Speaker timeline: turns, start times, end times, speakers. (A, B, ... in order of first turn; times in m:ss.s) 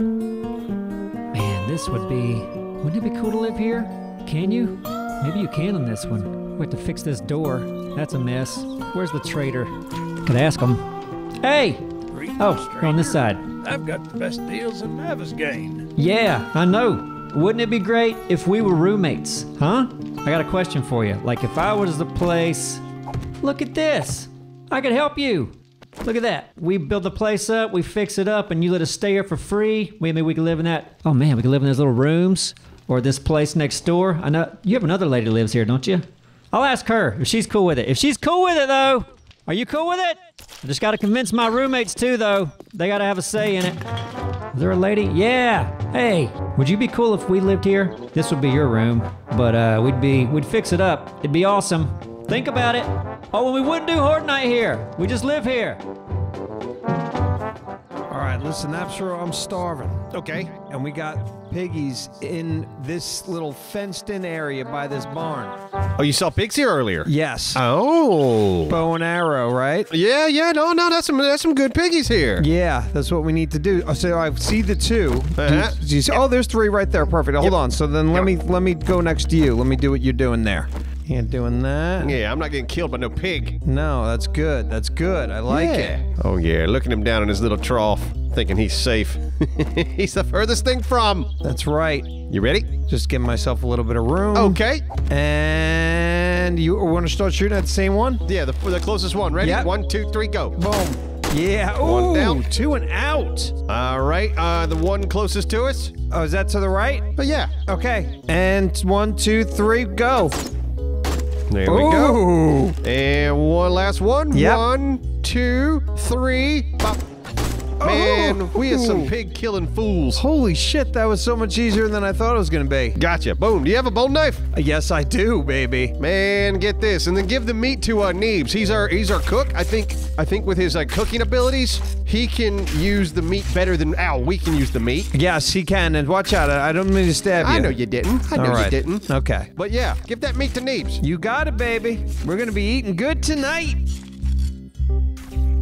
0:01.3-0:09.7 A
0:10.2-0:10.8 A
0:11.4-0:13.5 A
0:12.1-0:12.9 B
0:13.6-0:15.9 B
0:16.0-0:22.8 A
0:23.4-0:43.8 A
0:44.5-0:55.8 A
0:58.1-1:05.6 C
1:00.1-1:00.5 D
1:06.0-1:08.8 D
1:07.0-1:07.6 C
1:08.7-1:09.9 C
1:09.9-1:12.5 D
1:12.4-1:22.2 C
1:15.4-1:16.2 D
1:22.0-1:23.6 D
1:23.6-1:26.0 C
1:25.5-1:31.3 D
1:31.4-1:32.2 C
1:32.3-1:32.8 D
1:32.8-1:38.2 C
1:34.3-1:34.9 D
1:38.2-1:40.6 D
1:39.4-1:39.7 C
1:40.6-1:43.6 C
1:41.8-1:42.5 D
1:43.7-1:45.9 D
1:46.1-1:50.4 C
1:47.2-1:47.6 D
1:51.5-1:52.2 D
1:51.6-1:52.8 C
1:52.8-1:57.0 D
1:54.3-1:54.6 C
1:57.8-1:59.1 C
1:57.8-2:00.2 D
2:00.2-2:03.0 C
2:03.0-2:04.4 D
2:04.5-2:06.0 C
2:06.0-2:15.1 D
2:15.1-2:17.8 C
2:17.4-2:19.0 D
2:18.3-2:19.5 C
2:19.6-2:21.0 D
2:21.0-2:23.8 C